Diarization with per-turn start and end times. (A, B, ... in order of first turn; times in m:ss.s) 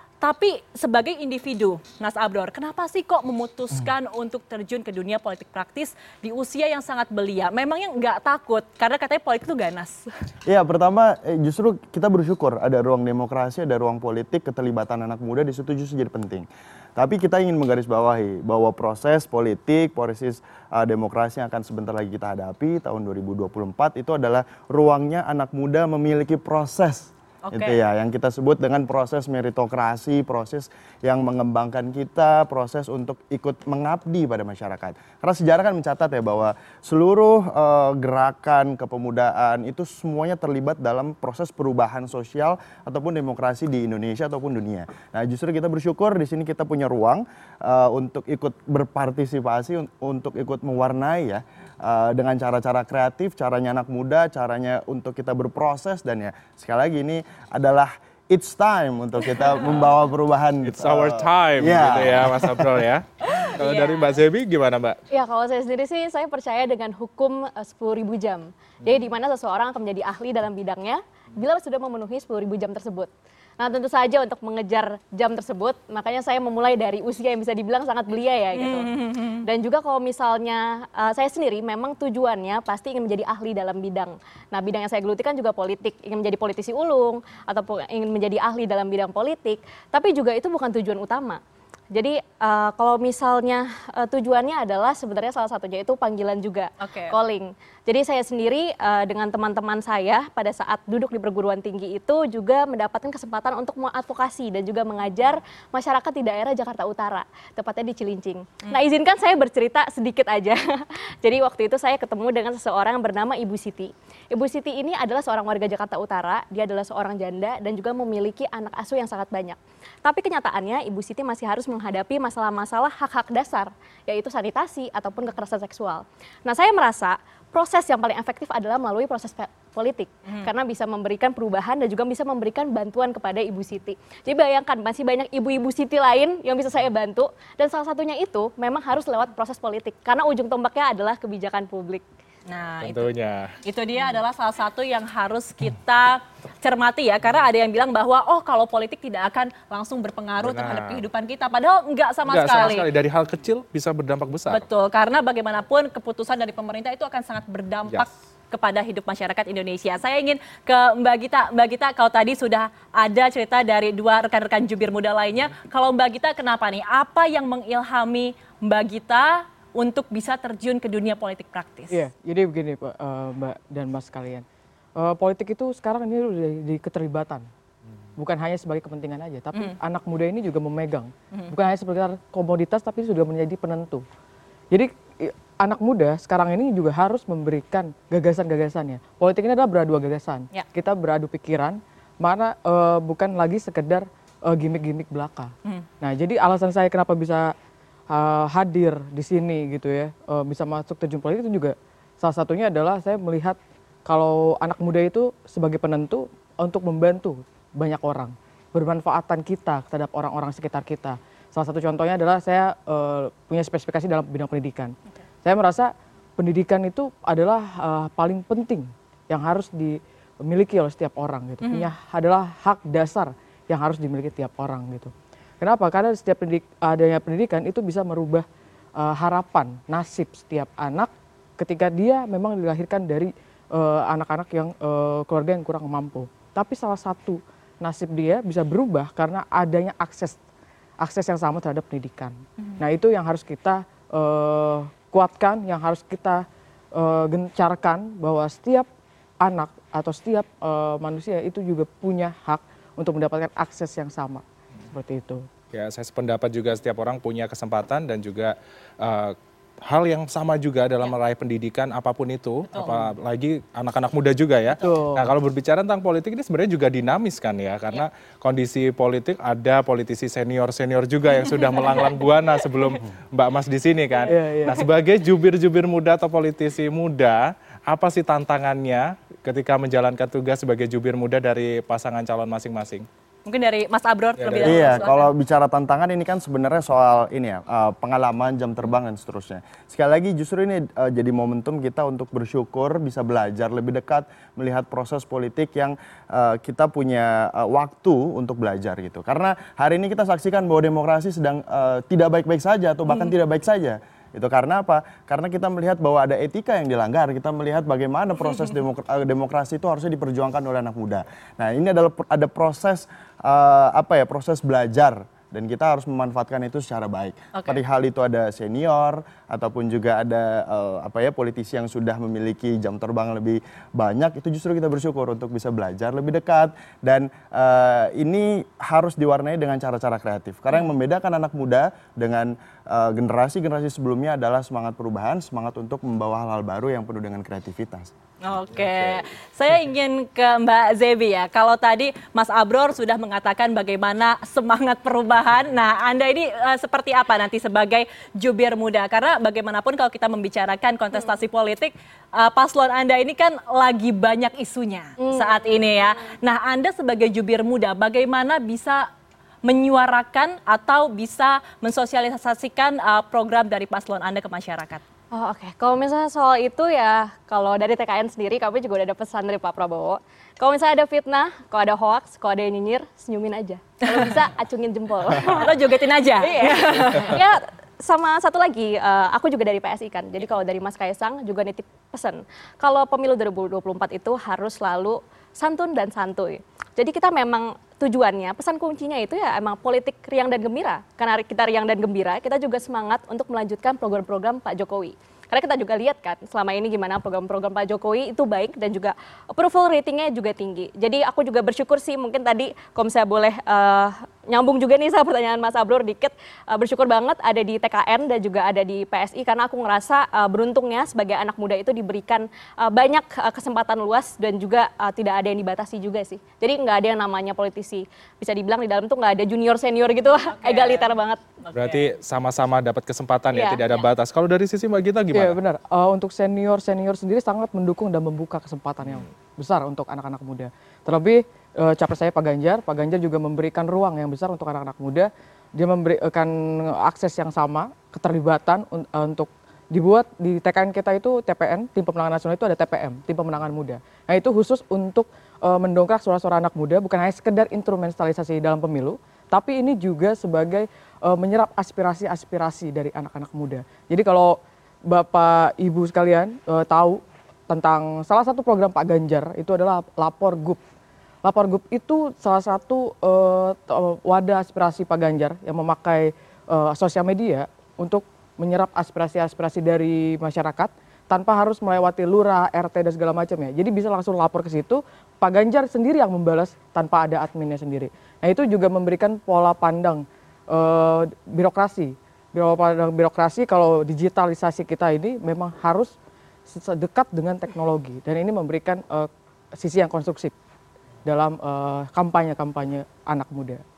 0:00.2-0:10.1 A
0:10.4-1:02.8 B
0:27.5-0:27.8 A
1:00.6-1:05.0 C
1:03.3-1:04.2 A
1:05.1-1:18.9 D
1:18.5-1:19.4 A
1:19.4-1:31.4 D
1:31.9-2:22.0 D
1:36.8-1:37.2 A
2:22.5-2:32.9 A
2:22.8-2:23.5 C
2:30.4-2:31.1 C
2:32.3-2:34.6 C
2:34.5-2:52.0 A
2:51.9-2:54.4 E
2:55.0-2:57.4 E
2:58.2-3:04.0 E
3:04.7-3:17.5 E
3:18.1-3:48.4 E
3:41.6-3:41.9 A
3:49.0-4:00.4 E
4:01.0-4:08.9 E
4:02.6-4:02.8 A
4:09.4-4:15.5 E
4:15.7-4:43.1 C
4:22.7-4:23.1 A
4:24.8-4:25.3 E
4:31.4-4:32.3 A
4:34.3-4:34.9 E
4:43.4-4:45.3 A
4:44.4-4:45.1 C
4:44.6-5:38.1 B
5:03.1-5:03.3 A
5:17.5-5:17.8 A
5:38.4-5:59.1 A
5:38.7-5:39.2 C
5:55.2-5:55.8 D
5:59.6-6:05.0 A
6:05.3-7:01.4 D
6:14.1-6:14.4 A
6:15.4-6:17.4 A
7:00.4-7:02.1 A
7:01.8-7:05.6 C
7:03.5-7:03.8 D
7:05.3-7:40.8 E
7:41.4-8:06.1 E
8:06.7-8:10.5 E
8:11.2-8:13.8 E